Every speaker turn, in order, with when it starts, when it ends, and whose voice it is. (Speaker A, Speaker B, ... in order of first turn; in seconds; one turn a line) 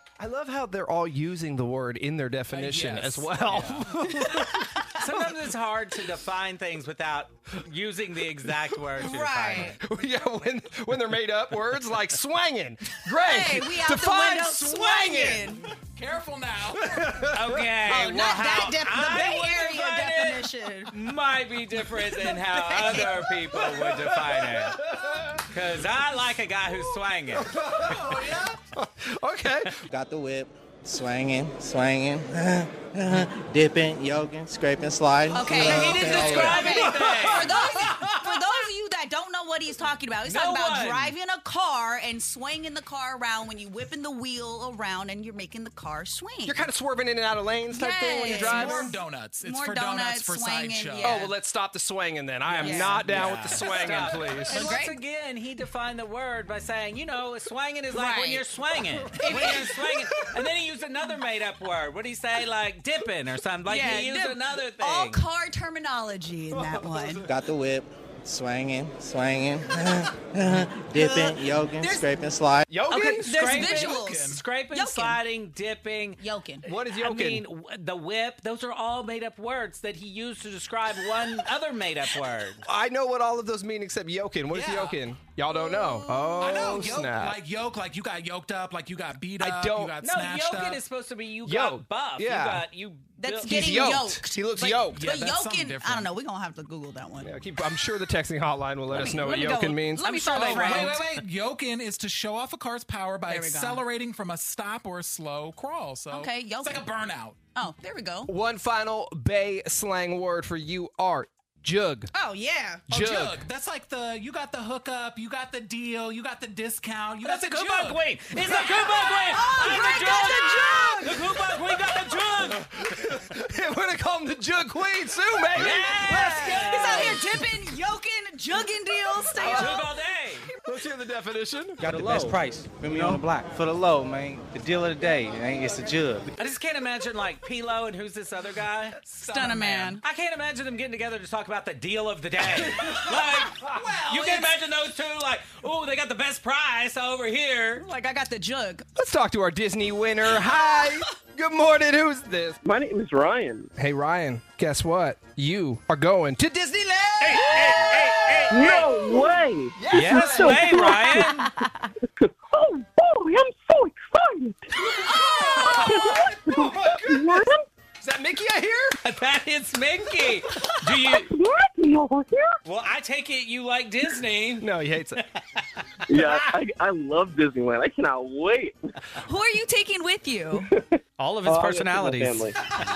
Speaker A: 0.2-4.6
Speaker B: 2.5-3.5
Speaker C: 3.5-3.8
Speaker D: 4.2-4.8
Speaker C: 4.8-9.8
Speaker D: 9.0-9.8
Speaker A: 9.6-15.6
Speaker D: 13.1-15.7
Speaker B: 15.9-17.1
Speaker A: 16.7-17.6
Speaker C: 17.3-24.8
Speaker D: 17.9-20.9
Speaker D: 22.8-23.0
Speaker A: 23.7-25.5
Speaker C: 25.5-27.5
Speaker A: 27.3-29.8
Speaker B: 27.9-28.6
Speaker E: 29.9-36.6
Speaker D: 35.3-46.6
Speaker C: 35.5-38.5
Speaker A: 36.7-37.1
Speaker C: 40.2-41.1
Speaker A: 46.5-49.0
Speaker D: 47.7-51.3
Speaker B: 48.3-51.2
Speaker A: 51.0-54.7
Speaker D: 52.6-53.0
Speaker B: 52.7-54.4
Speaker C: 53.0-65.2
Speaker D: 54.5-55.0
Speaker D: 57.9-58.5
Speaker D: 59.1-59.8
Speaker A: 59.2-59.6
Speaker D: 63.7-67.3
Speaker A: 66.5-67.3
Speaker E: 67.2-72.7
Speaker D: 70.9-72.1
Speaker A: 72.7-73.6
Speaker D: 72.9-75.2
Speaker C: 73.0-82.6
Speaker B: 73.5-74.4
Speaker D: 76.2-76.7
Speaker A: 76.7-77.5
Speaker A: 82.6-87.4
Speaker B: 84.5-85.0
Speaker D: 85.5-86.8
Speaker B: 86.4-90.8
Speaker A: 89.4-90.0
Speaker C: 90.0-93.9
Speaker A: 91.4-92.7
Speaker D: 93.2-97.3
Speaker A: 93.4-95.1
Speaker B: 94.9-96.1
Speaker A: 97.2-100.5
Speaker D: 98.9-101.0
Speaker C: 100.0-101.1
Speaker B: 100.3-107.4
Speaker D: 103.3-103.8
Speaker D: 106.1-106.9
Speaker D: 107.5-108.3
Speaker A: 108.3-112.1
Speaker D: 112.1-112.8
Speaker A: 112.9-113.4
Speaker B: 112.9-118.0
Speaker C: 117.3-122.6
Speaker D: 118.5-121.2
Speaker A: 122.4-127.2
Speaker C: 125.5-127.2
Speaker D: 126.1-130.0
Speaker A: 129.3-129.9
Speaker C: 129.5-130.5
Speaker A: 130.6-132.1
Speaker F: 131.9-136.2
Speaker C: 132.0-132.4
Speaker E: 132.8-133.2
Speaker C: 136.4-139.0
Speaker B: 139.0-140.0
Speaker D: 139.3-140.0
Speaker C: 140.0-147.8
Speaker B: 143.6-144.6
Speaker D: 147.8-148.9
Speaker A: 149.0-152.6
Speaker G: 152.6-153.7
Speaker A: 153.8-158.9
Speaker C: 157.2-159.1
Speaker G: 158.5-161.4
Speaker A: 159.8-160.8
Speaker C: 159.9-161.5
Speaker D: 161.2-161.6
Speaker G: 162.2-164.7
Speaker A: 164.9-169.0
Speaker D: 165.2-165.8
Speaker G: 165.6-167.7
Speaker C: 169.0-171.3
Speaker G: 171.0-172.6
Speaker C: 172.7-174.7
Speaker A: 174.6-175.2
Speaker C: 175.3-175.6
Speaker G: 176.1-178.8
Speaker D: 179.2-180.7
Speaker G: 180.7-182.6
Speaker C: 181.2-182.6